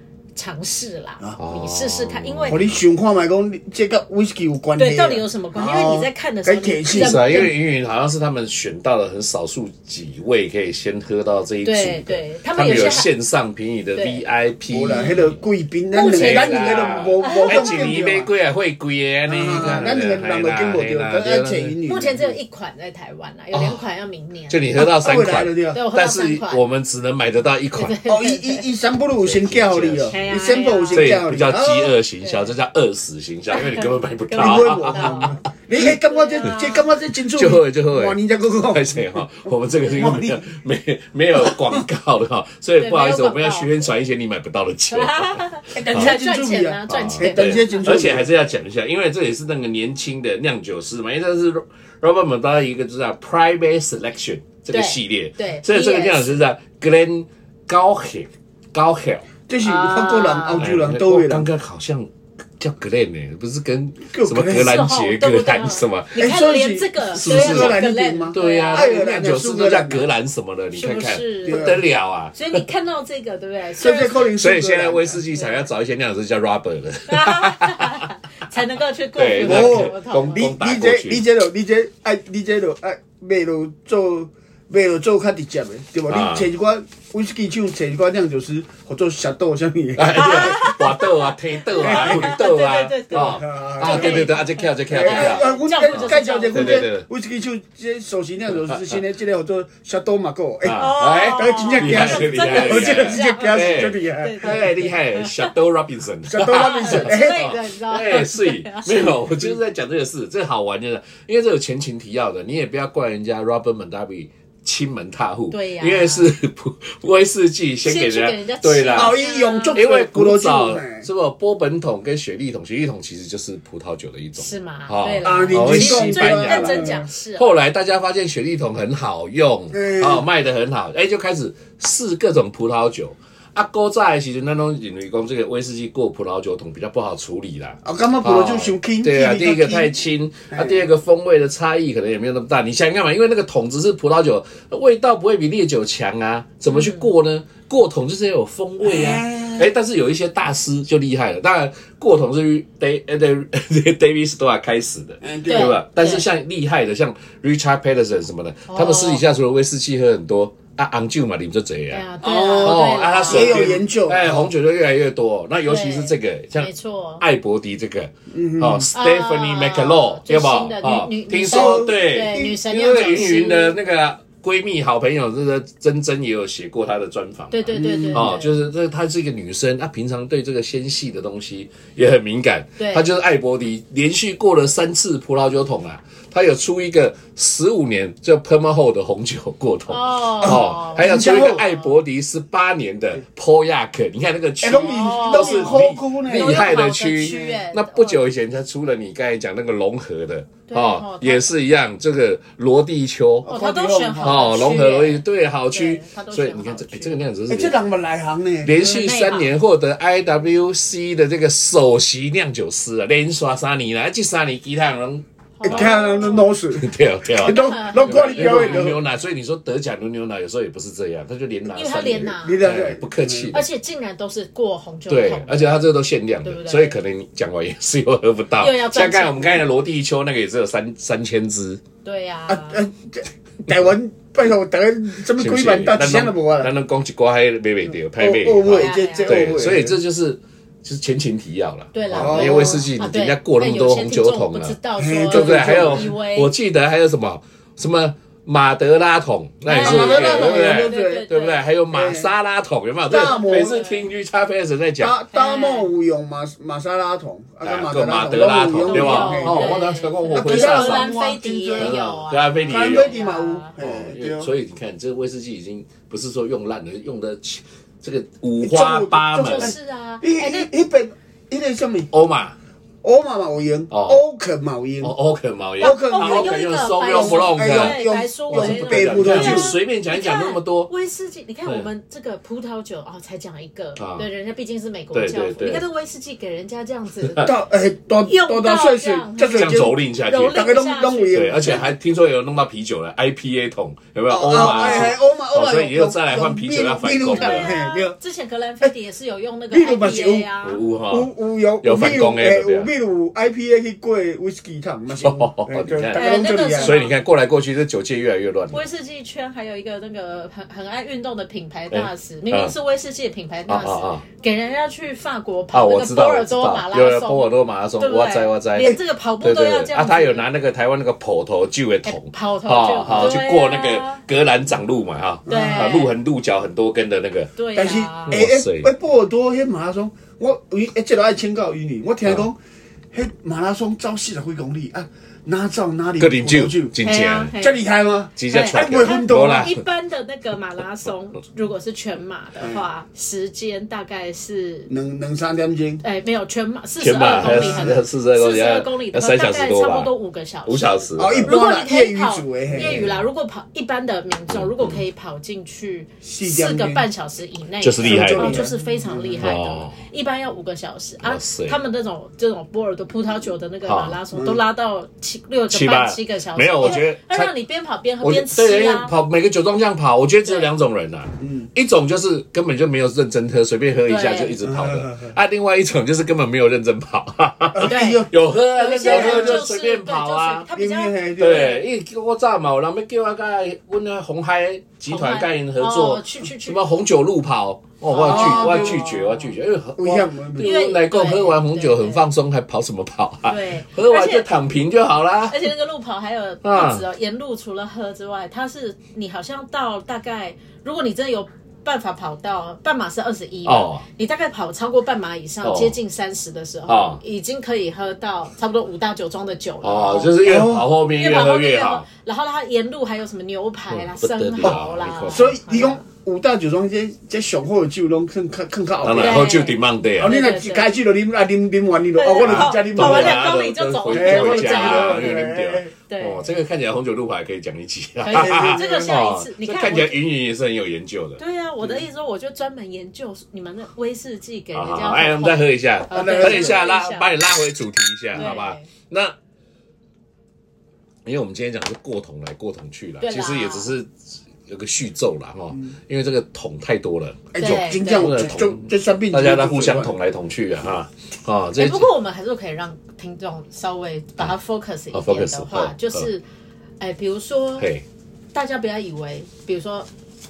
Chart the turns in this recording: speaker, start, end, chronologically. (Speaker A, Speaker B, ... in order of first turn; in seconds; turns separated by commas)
Speaker A: 0.3-2.6, Speaker B: 1.4-2.8, Speaker C: 2.5-7.5, Speaker A: 4.8-7.5, Speaker B: 6.9-15.4, Speaker A: 11.6-13.1, Speaker C: 12.6-13.1, Speaker A: 13.9-14.2, Speaker C: 14.7-18.3, Speaker A: 15.9-18.0, Speaker B: 16.0-21.8, Speaker C: 19.3-22.4, Speaker A: 19.6-19.8, Speaker A: 21.9-24.7, Speaker B: 23.5-23.8, Speaker B: 24.5-28.0, Speaker C: 24.8-25.8, Speaker A: 25.7-26.6, Speaker A: 27.8-28.7, Speaker C: 28.1-31.9, Speaker B: 29.2-30.3, Speaker A: 30.1-31.2, Speaker B: 30.9-35.4, Speaker A: 32.2-32.5, Speaker A: 33.5-36.9, Speaker C: 34.4-40.5, Speaker B: 37.3-46.2, Speaker C: 41.4-41.8, Speaker A: 42.8-43.9, Speaker A: 44.9-48.1, Speaker C: 45.7-48.3, Speaker B: 46.9-59.2, Speaker A: 54.7-56.4, Speaker C: 59.5-61.5, Speaker A: 59.6-60.7, Speaker B: 60.6-66.3, Speaker C: 64.0-64.9, Speaker A: 64.5-69.0, Speaker C: 66.2-70.0, Speaker B: 67.1-67.8, Speaker B: 68.3-72.6, Speaker A: 70.8-74.3, Speaker C: 71.5-71.8, Speaker C: 73.8-75.2, Speaker B: 74.1-78.1, Speaker A: 75.3-75.7, Speaker A: 77.1-80.5, Speaker B: 79.2-81.2, Speaker C: 79.4-90.6, Speaker B: 86.1-86.5, Speaker B: 90.0-97.1, Speaker A: 90.1-96.9, Speaker C: 91.8-92.3, Speaker C: 93.1-94.3, Speaker C: 94.9-104.7, Speaker B: 100.6-119.2, Speaker A: 100.7-105.5, Speaker C: 106.3-107.5, Speaker A: 106.4-109.2, Speaker A: 115.5-116.3, Speaker A: 117.8-119.8, Speaker C: 118.9-121.1, Speaker B: 119.7-203.5, Speaker A: 124.4-127.5, Speaker C: 125.2-127.1, Speaker C: 129.7-130.2, Speaker C: 137.8-139.9, Speaker C: 140.5-140.8, Speaker A: 146.7-147.1, Speaker C: 148.8-149.7, Speaker C: 155.2-155.8, Speaker A: 155.5-156.3, Speaker A: 158.7-159.2, Speaker A: 161.9-163.7, Speaker C: 162.2-164.5, Speaker A: 165.7-167.2, Speaker C: 168.3-168.9, Speaker A: 168.9-173.8, Speaker C: 171.5-172.5, Speaker A: 177.5-178.6, Speaker C: 177.7-178.3, Speaker A: 182.8-183.1, Speaker A: 189.9-191.8, Speaker C: 190.4-191.6, Speaker C: 194.6-197.6, Speaker A: 194.7-198.2, Speaker A: 200.7-201.5, Speaker C: 203.4-204.5, Speaker A: 203.5-207.2, Speaker B: 204.2-207.8, Speaker C: 207.5-208.8, Speaker B: 208.6-223.7, Speaker A: 208.8-209.5, Speaker A: 215.6-216.6, Speaker C: 215.6-219.0, Speaker A: 217.4-218.9, Speaker A: 221.7-222.6, Speaker C: 222.2-223.5, Speaker A: 223.5-225.9, Speaker B: 225.1-231.8, Speaker A: 226.4-227.0, Speaker A: 228.6-229.6, Speaker A: 232.1-232.8, Speaker C: 232.5-236.7, Speaker B: 235.4-244.8, Speaker C: 238.2-240.0, Speaker A: 238.7-239.5, Speaker A: 241.9-246.5, Speaker C: 242.1-242.8, Speaker C: 245.0-246.1, Speaker B: 245.3-255.2, Speaker A: 249.7-251.7, Speaker C: 249.7-251.3, Speaker C: 251.9-252.3, Speaker C: 253.1-253.8, Speaker A: 253.1-254.1, Speaker C: 255.0-261.9, Speaker A: 255.3-255.9, Speaker B: 257.6-261.1, Speaker A: 258.8-263.7, Speaker B: 261.8-263.1, Speaker C: 262.7-264.5, Speaker B: 263.8-269.7, Speaker C: 268.6-272.1, Speaker A: 269.3-270.7, Speaker B: 272.1-272.6, Speaker C: 273.0-275.1, Speaker B: 273.9-274.2, Speaker B: 275.0-280.9, Speaker C: 275.8-279.8, Speaker A: 275.8-287.5, Speaker B: 284.0-284.3, Speaker B: 285.1-285.9, Speaker C: 287.4-291.9, Speaker A: 288.3-291.7, Speaker B: 289.6-290.6, Speaker B: 291.3-297.7, Speaker C: 294.3-298.1, Speaker A: 294.8-295.0, Speaker A: 297.3-300.9, Speaker C: 299.7-300.5, Speaker B: 300.6-301.3, Speaker C: 301.1-307.0, Speaker B: 301.8-302.9, Speaker B: 305.1-308.8, Speaker A: 306.1-307.2, Speaker A: 308.7-320.5, Speaker B: 311.9-312.7, Speaker B: 313.7-314.2, Speaker B: 315.7-328.9, Speaker A: 322.1-324.2, Speaker C: 325.5-326.1, Speaker A: 325.5-326.1, Speaker A: 327.6-328.4, Speaker C: 327.7-332.6, Speaker C: 333.1-336.9, Speaker B: 336.2-337.5, Speaker A: 337.0-337.8, Speaker C: 337.5-339.8, Speaker B: 338.4-339.8, Speaker A: 338.5-344.9, Speaker C: 344.9-346.0, Speaker A: 346.0-369.1, Speaker B: 347.0-350.1, Speaker C: 347.2-348.0, Speaker B: 350.7-351.6, Speaker C: 351.2-353.0, Speaker B: 352.7-353.2, Speaker B: 354.5-355.0, Speaker C: 356.2-357.1, Speaker B: 357.8-358.7, Speaker C: 358.0-359.6, Speaker B: 359.4-360.0, Speaker B: 361.2-361.8, Speaker B: 363.9-364.2, Speaker C: 364.3-364.6, Speaker B: 365.7-367.5, Speaker B: 368.2-380.7, Speaker C: 371.4-371.7, Speaker A: 374.1-374.6, Speaker C: 374.6-375.3, Speaker C: 377.8-378.3, Speaker A: 377.8-381.8, Speaker C: 378.9-379.6, Speaker C: 380.7-381.8, Speaker B: 381.4-395.6, Speaker A: 385.1-387.0, Speaker A: 388.1-389.5, Speaker C: 388.2-389.1, Speaker C: 390.0-390.8, Speaker A: 390.6-392.2, Speaker A: 393.5-394.5, Speaker A: 395.5-410.6, Speaker B: 396.6-397.1, Speaker B: 403.6-404.0, Speaker B: 405.6-405.9, Speaker B: 406.9-407.2, Speaker B: 409.8-412.1, Speaker C: 410.4-410.9, Speaker A: 411.2-416.0, Speaker B: 413.9-415.6, Speaker C: 415.3-419.5, Speaker B: 419.0-420.4, Speaker A: 419.2-420.9, Speaker C: 420.2-423.5, Speaker A: 422.1-425.4, Speaker B: 422.4-431.4, Speaker C: 424.1-425.9, Speaker A: 426.1-426.5, Speaker A: 428.2-430.2, Speaker C: 428.3-429.3, Speaker A: 431.4-437.3, Speaker B: 434.7-439.4, Speaker C: 436.1-436.8, Speaker A: 438.3-438.8, Speaker B: 441.2-444.1, Speaker A: 443.2-443.9, Speaker B: 444.7-452.1, Speaker C: 447.5-450.1, Speaker A: 447.6-448.4, Speaker A: 451.8-456.4, Speaker B: 455.1-456.3, Speaker A: 457.0-457.9, Speaker B: 457.8-458.0, Speaker A: 458.5-460.1